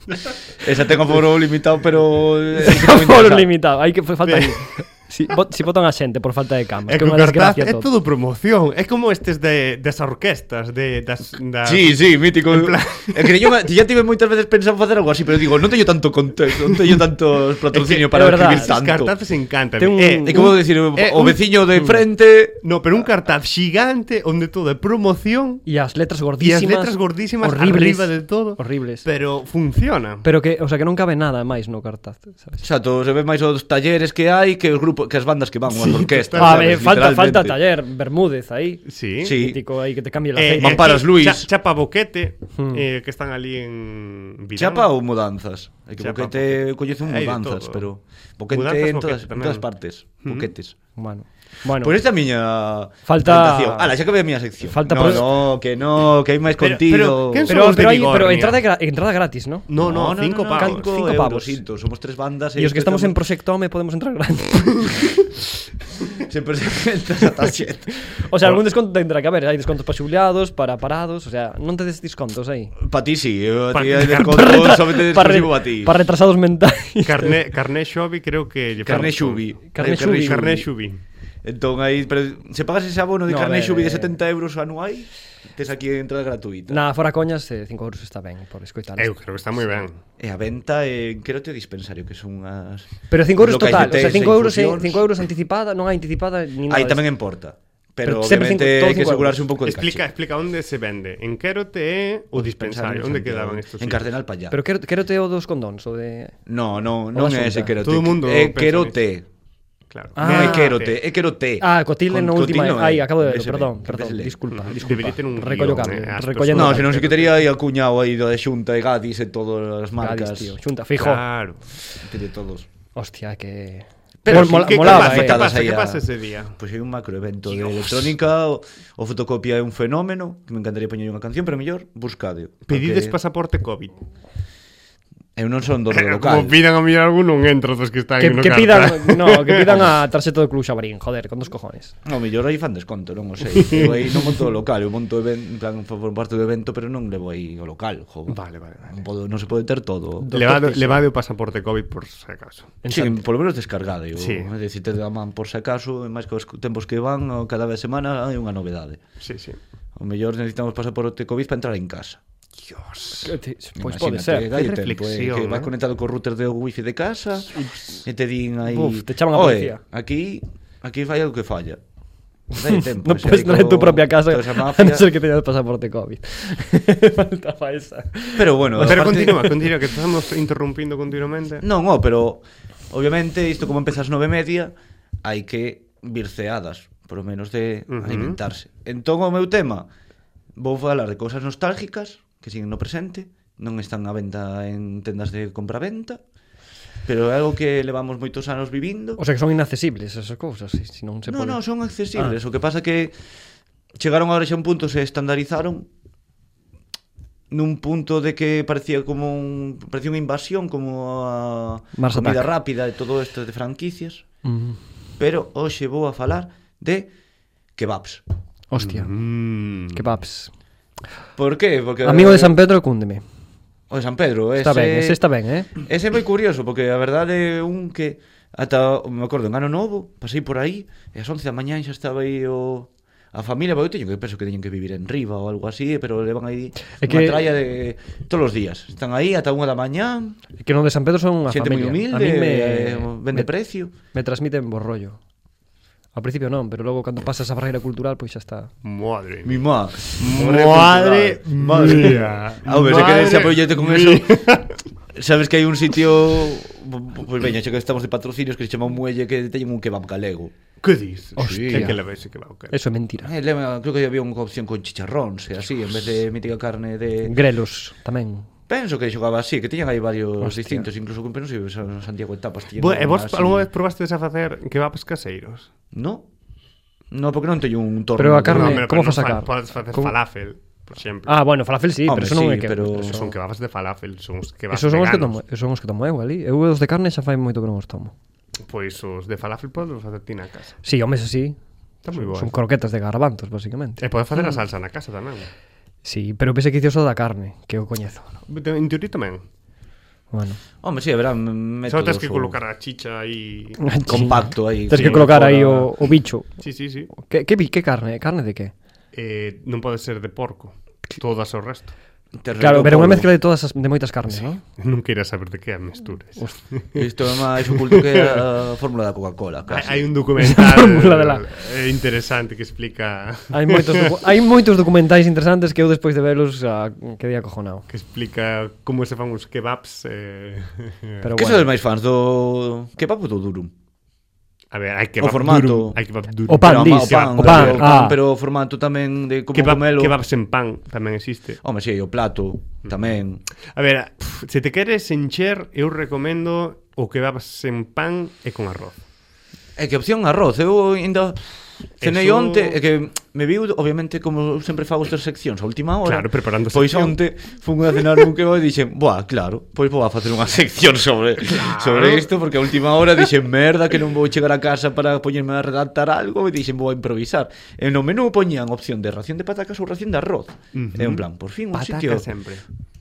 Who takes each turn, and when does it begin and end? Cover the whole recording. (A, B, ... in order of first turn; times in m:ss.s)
0:00.6-0:03.5 A
0:02.6-0:07.9 B
0:04.3-0:04.6 C
0:06.9-0:13.5 C
0:11.6-0:19.1 A
0:17.7-0:21.4 C
0:18.0-0:18.7 B
0:19.8-0:20.6 B
0:20.3-0:22.6 A
0:22.6-0:25.6 C
0:25.6-0:29.0 B
0:26.4-0:30.2 C
0:30.2-0:32.6 B
0:32.6-0:37.6 A
0:35.9-0:36.8 C
0:36.3-0:41.0 B
0:38.9-0:39.4 C
0:39.2-0:39.6 A
0:40.3-0:44.9 C
0:40.6-0:41.5 A
0:42.6-0:42.8 B
0:44.6-0:50.8 A
0:46.0-0:47.8 C
0:48.5-0:49.7 C
0:50.2-0:50.5 C
0:51.0-0:52.0 B
0:51.8-0:57.6 A
0:53.0-0:54.0 B
0:54.6-0:55.3 B
0:56.6-0:58.6 C
0:57.5-0:59.7 B
0:59.7-1:00.9 C
0:59.8-1:03.2 A
1:00.5-1:01.6 B
1:02.6-1:05.1 B
1:06.2-1:08.2 A
1:08.1-1:12.7 B
1:12.8-1:16.0 A
1:13.7-1:14.6 C
1:14.2-1:17.4 B
1:17.0-1:21.0 C
1:18.8-1:20.6 A
1:18.9-1:20.6 B
1:21.4-1:26.8 A
1:23.3-1:24.2 B
1:26.7-1:29.1 B
1:29.0-1:30.0 C
1:30.2-1:35.1 A
1:33.1-1:37.0 B
1:36.7-1:40.1 A
1:38.0-1:39.4 B
1:39.6-1:44.1 C
1:42.3-1:44.6 A
1:44.5-1:46.4 B
1:46.4-1:49.3 A
1:47.1-1:47.7 B
1:47.8-1:49.0 C
1:49.9-1:50.9 C
1:50.2-1:50.8 B
1:50.2-1:55.1 A
1:51.6-1:57.0 B
1:54.6-1:57.3 C
1:56.5-2:00.6 A
2:00.0-2:01.2 B
2:01.0-2:01.6 C
2:02.0-2:02.7 A
2:02.9-2:05.4 B
2:04.2-2:06.0 A
2:04.3-2:06.6 C
2:06.6-2:13.2 A
2:07.5-2:08.1 C
2:12.7-2:13.9 C
2:15.4-2:16.6 A
2:15.9-2:19.9 C
2:18.2-2:21.9 B
2:22.0-2:30.3 A
2:23.6-2:23.9 C
2:28.3-2:28.9 C
2:30.2-2:31.0 B
2:30.3-2:32.8 C
2:32.8-2:33.2 B
2:32.9-2:39.0 A
2:34.2-2:34.5 C
2:39.2-2:39.6 C
2:40.0-2:42.2 A
2:42.6-2:43.4 C
2:43.1-2:44.5 B
2:43.8-2:51.8 A
2:44.5-2:45.7 C
2:47.6-2:48.0 B
2:48.6-2:49.8 B
2:52.5-2:55.1 A
2:52.6-2:59.5 B
2:58.3-2:59.6 A
2:58.8-3:01.6 C
3:01.6-3:09.9 A
3:07.9-3:08.4 C
3:10.6-3:16.2 A
3:17.0-3:19.2 A
3:19.2-3:21.6 B
3:21.3-3:23.2 A
3:24.0-3:25.9 A
3:27.5-3:34.2 A
3:32.0-3:32.5 B
3:34.4-3:34.8 B
3:35.2-3:37.1 A
3:37.8-3:38.2 A
3:38.7-3:39.1 B
3:38.8-3:40.1 C
3:39.9-3:40.5 B
3:41.4-3:42.6 A
3:42.0-3:43.2 B
3:43.9-3:45.2 A
3:44.6-3:45.7 B
3:45.7-4:00.4 A
3:57.0-3:57.5 B
4:00.6-4:05.2 B
4:01.5-4:03.9 A
4:06.1-4:08.7 B
4:08.8-4:14.8 C
4:09.4-4:14.6 A
4:15.1-4:20.5 A
4:20.8-4:22.8 C
4:21.4-4:21.9 A
4:21.4-4:22.0 B
4:22.7-4:23.3 B
4:23.2-4:27.3 A
4:27.2-4:28.5 B
4:28.7-4:33.7 A
4:30.4-4:30.9 B
4:32.8-4:35.7 C
4:35.9-4:36.3 A
4:37.1-4:38.8 A
4:38.2-4:40.1 B
4:38.5-4:41.4 C
4:41.3-4:43.3 B
4:42.0-4:43.2 A
4:42.9-4:45.4 C
4:44.7-4:48.1 B
4:48.6-4:50.8 C
4:50.8-4:51.6 B
4:52.0-4:52.5 C
4:52.1-4:54.0 B
4:54.0-4:55.5 C
4:56.0-4:58.3 B
4:58.5-4:59.4 C
5:00.3-5:00.6 B
5:00.8-5:02.6 A
5:01.9-5:03.8 C
5:03.8-5:06.5 B
5:04.0-5:05.9 A
5:04.9-5:05.3 C
5:06.6-5:07.1 C
5:07.1-5:08.7 B
5:09.1-5:11.9 C
5:12.4-5:13.3 A
5:12.6-5:14.6 B
5:14.8-5:17.0 C
5:16.9-5:20.1 A
5:17.6-5:18.4 C
5:19.7-5:24.2 C
5:20.4-5:21.4 B
5:23.5-5:27.9 B
5:27.9-5:31.2 C
5:31.2-5:31.8 B
5:31.3-5:33.7 A
5:34.7-5:38.0 C
5:35.2-5:36.0 A
5:36.5-5:38.2 B
5:36.5-5:40.2 A
5:39.5-5:41.6 C
5:41.6-5:43.4 A
5:42.8-5:43.1 C
5:43.7-5:49.0 C
5:49.8-5:51.4 A
5:52.0-5:52.8 C
5:52.0-6:12.3 A
5:56.0-5:57.2 C
6:01.5-6:02.3 C
6:10.7-6:12.6 C